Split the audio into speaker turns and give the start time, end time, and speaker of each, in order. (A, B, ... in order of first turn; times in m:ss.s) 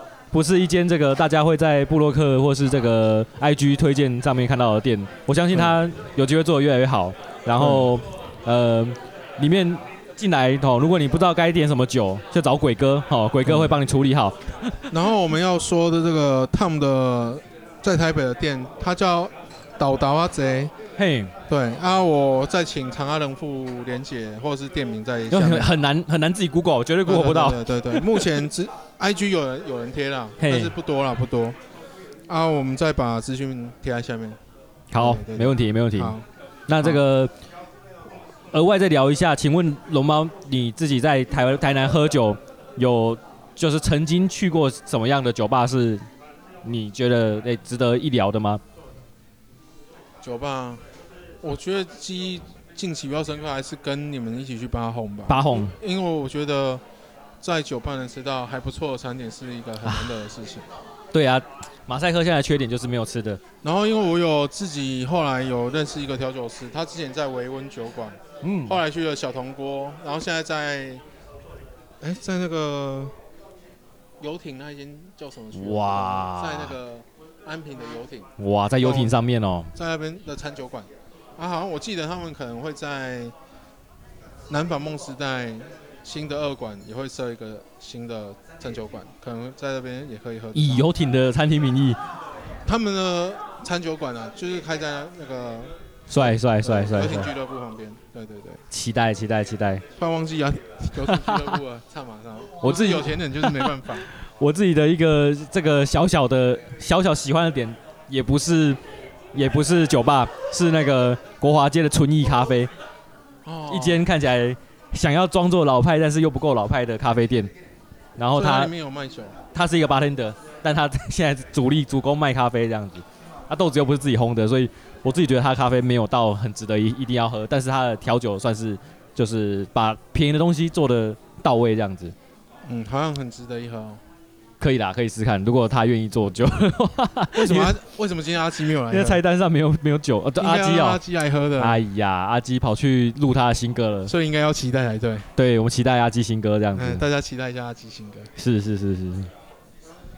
0:00.3-0:14.9 A
0:05.5-0:05.8 B
0:07.6-0:07.9 B
0:13.5-0:13.8 B
0:14.9-0:20.7 B
0:21.0-0:21.3 A
0:21.5-0:25.8 B
0:25.3-0:28.3 A
0:27.0-0:31.6 B
0:30.4-0:30.7 A
0:32.3-0:34.4 B
0:34.9-0:36.2 A
0:35.0-0:36.3 B
0:36.7-0:37.3 A
0:38.5-0:46.1 A
0:46.6-0:48.6 A
0:50.2-0:50.8 B
0:51.4-0:56.8 B
0:55.3-0:55.8 A
0:57.4-1:00.7 B
1:01.1-1:03.4 A
1:03.6-1:11.0 B
1:08.4-1:08.8 A
1:12.0-1:13.2 B
1:14.2-1:19.2 B
1:15.5-1:16.7 A
1:18.4-1:19.7 A
1:19.8-1:23.4 B
1:24.5-1:30.9 B
1:30.5-1:32.0 A
1:32.6-1:38.6 B
1:36.1-1:37.3 A
1:38.7-1:39.8 A
1:40.0-1:44.1 B
1:41.0-1:41.6 A
1:42.6-1:48.8 A
1:49.3-1:52.7 A
1:53.4-1:54.1 B
1:53.7-1:57.5 A
1:58.2-1:58.7 A
1:58.3-1:59.4 B
1:59.5-2:12.1 A
2:12.6-2:14.0 B
2:14.6-2:17.8 A
2:17.3-2:19.2 B
2:18.9-2:21.0 A
2:20.4-2:21.8 B
2:21.6-2:24.1 A
2:24.1-2:25.3 B
2:25.4-2:27.1 A
2:26.7-2:28.3 B
2:28.4-2:29.3 A